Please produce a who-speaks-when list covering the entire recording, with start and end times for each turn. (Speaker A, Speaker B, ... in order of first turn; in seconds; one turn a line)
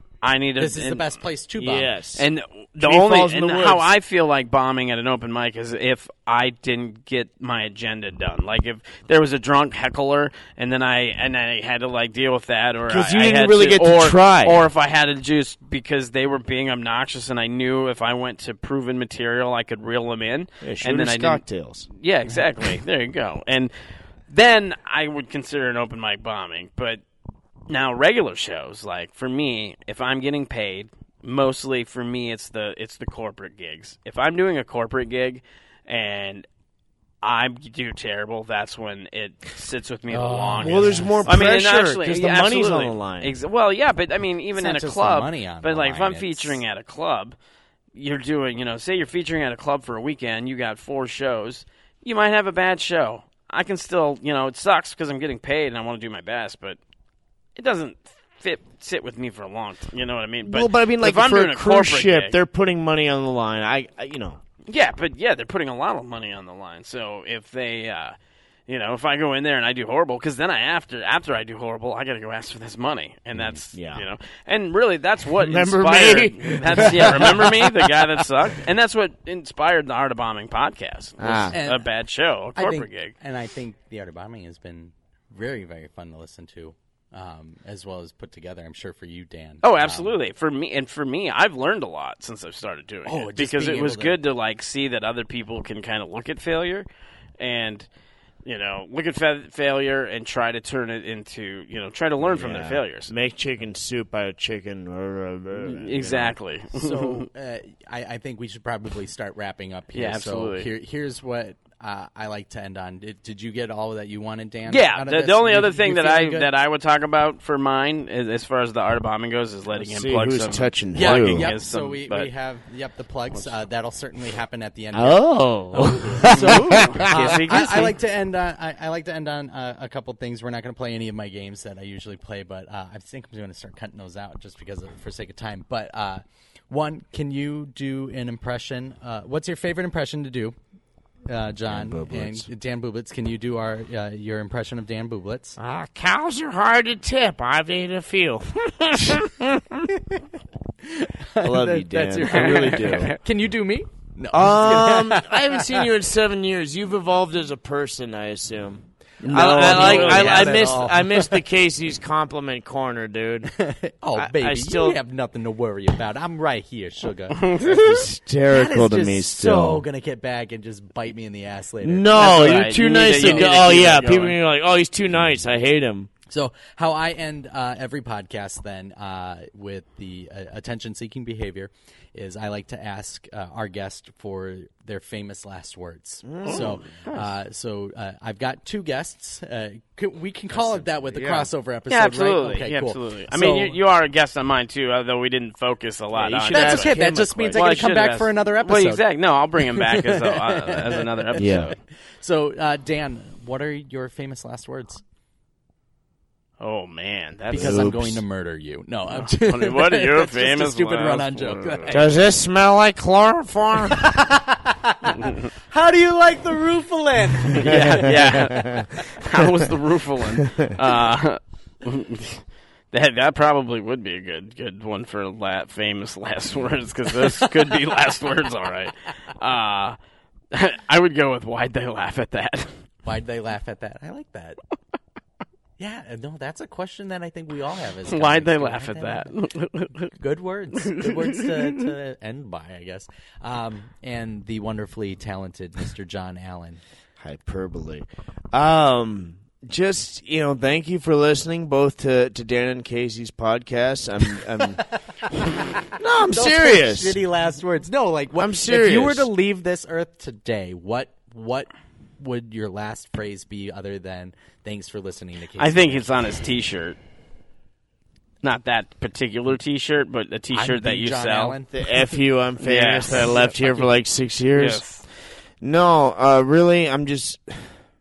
Speaker A: 0.2-1.1
Speaker B: 0.6-1.9
Speaker C: 1.6-2.3
Speaker A: 2.1-23.7
Speaker C: 2.8-3.9
Speaker C: 12.9-14.6
Speaker C: 20.6-21.9
Speaker A: 24.3-27.0
Speaker A: 27.7-36.5
Speaker A: 37.2-47.3
Speaker B: 40.1-41.3
Speaker C: 40.6-43.4
Speaker B: 44.5-46.6
Speaker A: 47.9-56.8
Speaker A: 57.5-62.4
Speaker C: 60.4-64.4
Speaker A: 64.7-68.1
Speaker A: 68.7-83.1
Speaker C: 73.7-74.0
Speaker C: 75.4-78.1
Speaker C: 81.2-81.6
Speaker B: 81.5-81.8
Speaker B: 82.5-90.2
Speaker A: 89.6-96.8
Speaker B: 93.0-94.2
Speaker A: 97.4-97.9
Speaker A: 98.4-103.1
Speaker C: 102.2-106.3
Speaker A: 105.6-107.3
Speaker B: 106.7-116.5
Speaker A: 109.9-110.7
Speaker A: 114.7-122.3
Speaker C: 119.7-121.5
Speaker B: 120.9-125.2
Speaker C: 124.9-127.4
Speaker A: 125.7-127.9
Speaker B: 125.8-140.5
Speaker B: 141.3-145.6
Speaker C: 141.7-142.5
Speaker C: 145.6-149.9
Speaker B: 150.8-155.8
Speaker C: 151.4-153.1
Speaker A: 152.3-153.1
Speaker C: 154.3-163.5
Speaker B: 159.2-161.4
Speaker A: 159.3-160.8
Speaker B: 163.5-167.6
Speaker C: 164.1-165.0
Speaker A: 167.3-168.1
Speaker C: 167.6-169.8
Speaker B: 168.5-173.9
Speaker C: 171.8-176.1
Speaker A: 172.1-174.4
Speaker B: 176.3-193.8
Speaker C: 186.2-186.8
Speaker A: 186.4-187.3
Speaker C: 190.5-191.5
Speaker A: 191.9-197.0
Speaker C: 196.1-197.8
Speaker B: 196.5-199.0
Speaker A: 197.5-201.7
Speaker B: 199.6-201.6
Speaker C: 201.4-201.7
Speaker B: 202.2-205.0
Speaker A: 206.6-207.9
Speaker C: 207.5-208.2
Speaker B: 207.5-212.1
Speaker A: 209.1-212.0
Speaker C: 211.9-214.1
Speaker B: 213.9-218.2
Speaker A: 215.2-215.5
Speaker C: 217.5-219.7
Speaker A: 217.5-230.0
Speaker C: 220.3-220.8
Speaker B: 227.2-227.5
Speaker A: 230.5-232.7
Speaker B: 233.0-234.6
Speaker B: 235.8-239.3
Speaker A: 238.1-240.1
Speaker B: 240.1-246.8
Speaker A: 240.7-241.8
Speaker C: 247.2-254.8
Speaker B: 254.9-266.2
Speaker C: 255.8-257.2
Speaker C: 258.4-259.3
Speaker A: 265.6-267.0
Speaker A: 268.4-271.6
Speaker B: 270.5-271.9
Speaker C: 271.7-274.8
Speaker A: 272.6-273.3
Speaker B: 273.2-273.6
Speaker A: 274.5-275.0
Speaker C: 275.6-277.7